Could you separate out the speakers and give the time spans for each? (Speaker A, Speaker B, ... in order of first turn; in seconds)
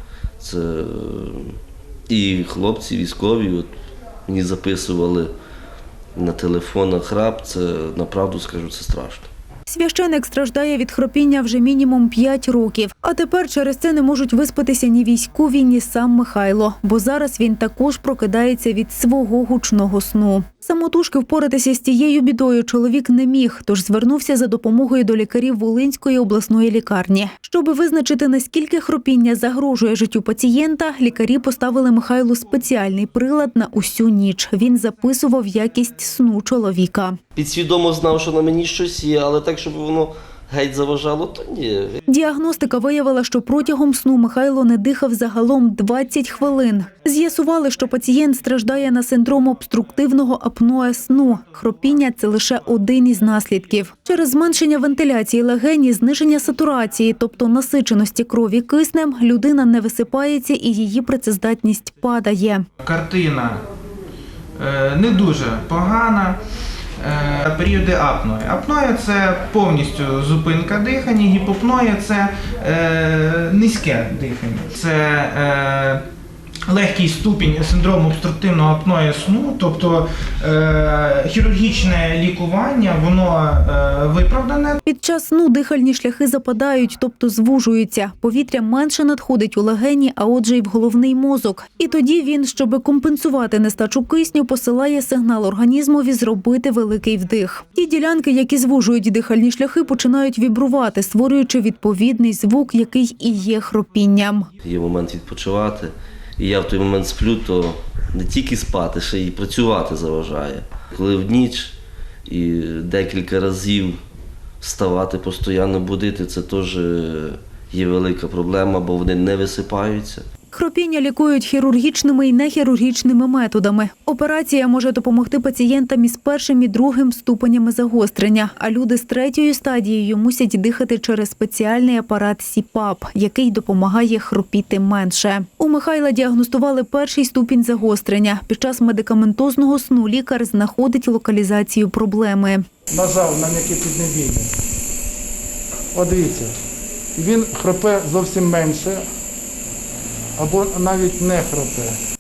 Speaker A: 0.4-1.6, 2.1-3.7, 4.3-5.3, 6.2-9.3, 37.4-42.0, 104.6-114.0, 114.6-120.2
Speaker B: 9.7-37.2, 42.1-62.7, 84.9-104.5, 120.5-142.7
Speaker C: 62.8-63.6, 64.6-66.4, 67.0-76.0, 76.7-84.8
Speaker D: 142.9-144.5, 145.9-146.5, 147.2-149.0, 150.4-152.0